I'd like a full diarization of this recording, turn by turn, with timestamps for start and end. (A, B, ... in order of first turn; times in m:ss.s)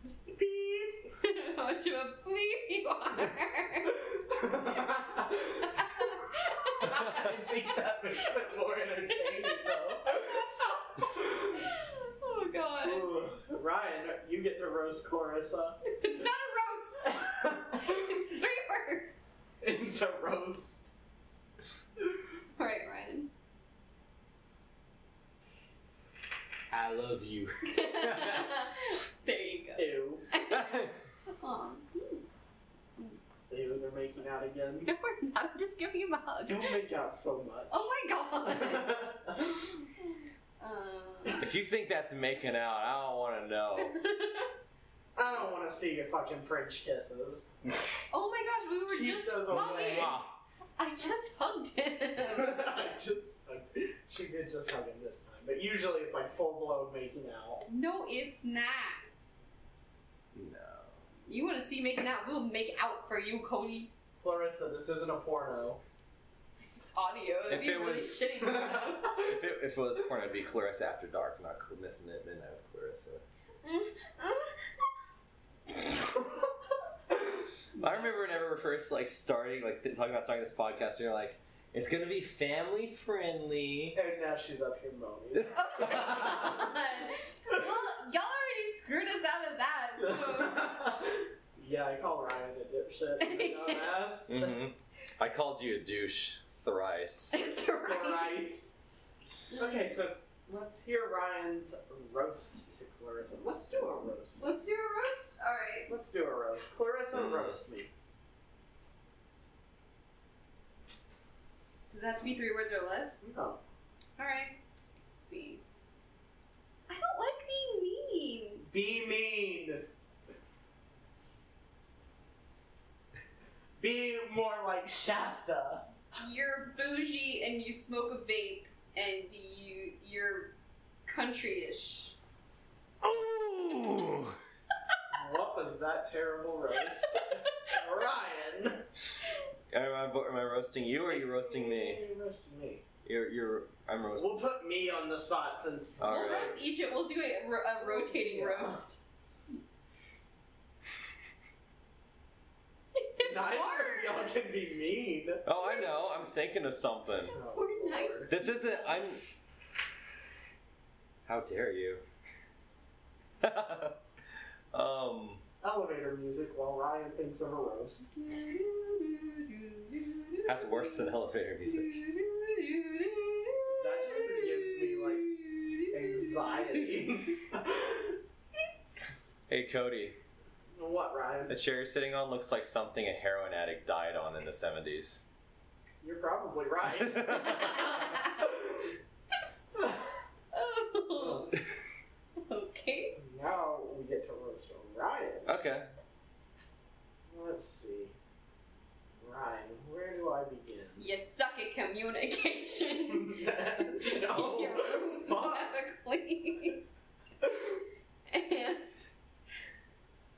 0:00.3-0:01.1 A
0:01.2-0:08.4 B
0:03.9-0:06.0 A
0:06.8-0:11.7 A
0:09.1-0:10.0 B
0:11.5-0:13.1 B
0:12.8-0:15.8 A
0:15.8-0:19.2 B
0:17.0-0:18.1 A
0:19.6-0:20.8 A
0:22.6-0:23.3 B
0:26.7-0:28.6 C
0:27.7-0:32.2 B
0:29.8-0:30.3 A
0:30.5-0:31.0 C
0:33.5-0:34.9 A
0:34.8-0:36.8 B
0:36.4-0:37.9 A
0:37.7-0:39.8 B
0:38.4-0:39.6 A
0:40.6-0:41.4 B
0:41.4-0:43.9 C
0:43.8-0:44.5 B
0:45.2-0:47.5 A
0:48.1-0:50.2 B
0:48.9-0:50.2 A
0:49.5-0:50.4 C
0:50.8-0:52.6 B
0:52.2-0:57.6 A
0:57.7-0:59.0 B
1:00.3-1:01.0 C
1:01.3-1:03.9 B
1:04.2-1:05.8 A
1:06.7-1:09.2 B
1:07.5-1:08.3 C
1:08.4-1:09.1 A
1:09.1-1:13.2 C
1:13.6-1:14.7 B
1:17.2-1:18.1 A
1:17.8-1:24.0 C
1:23.9-1:26.7 A
1:25.4-1:26.3 C
1:25.5-1:30.7 B
1:30.0-1:34.6 A
1:33.2-1:34.0 B
1:34.3-1:37.4 C
1:37.3-1:38.4 B
1:37.8-1:38.8 A
1:39.5-1:39.8 B
1:39.5-1:44.6 A
1:44.4-1:45.9 B
1:45.9-1:47.9 A
1:47.1-1:47.6 C
1:51.9-1:53.2 B
1:53.2-1:53.6 A
1:54.2-1:54.6 B
1:55.2-1:55.6 B
1:56.9-1:58.7 B
1:58.7-1:59.9 A
2:03.8-2:05.9 A
2:06.2-2:10.5 B
2:11.0-2:12.1 B
2:13.0-2:14.4 C
2:15.1-2:18.9 A
2:17.1-2:17.7 B
2:19.7-2:22.0 C
2:21.1-2:22.8 A
2:23.0-2:24.4 C
2:24.1-2:26.6 A
2:26.0-2:26.6 C
2:26.0-2:29.0 B
2:27.8-2:28.8 A
2:33.0-2:34.3 B
2:33.2-2:35.4 A
2:35.4-2:37.4 C
2:35.6-2:35.9 B
2:37.3-2:38.4 A
2:37.5-2:39.2 B
2:38.3-2:39.2 C
2:41.2-2:42.0 C
2:43.4-2:44.0 C
2:44.7-2:45.4 C
2:45.6-2:48.1 A
2:48.1-2:51.0 B
2:50.4-2:52.0 C
2:51.6-2:57.0 B
2:53.7-2:55.3 A
2:55.9-2:58.2 A
2:59.5-3:00.2 C
3:00.8-3:01.6 A
3:01.5-3:05.2 C
3:06.0-3:08.9 A
3:06.8-3:08.0 C
3:07.3-3:08.5 B
3:09.8-3:10.1 A
3:10.5-3:11.6 B
3:11.2-3:11.5 A
3:12.4-3:13.2 B
3:13.2-3:15.6 A
3:15.4-3:15.9 C
3:17.3-3:18.2 A
3:19.2-3:21.1 A
3:21.0-3:26.8 B
3:23.1-3:25.7 A
3:28.3-3:29.1 B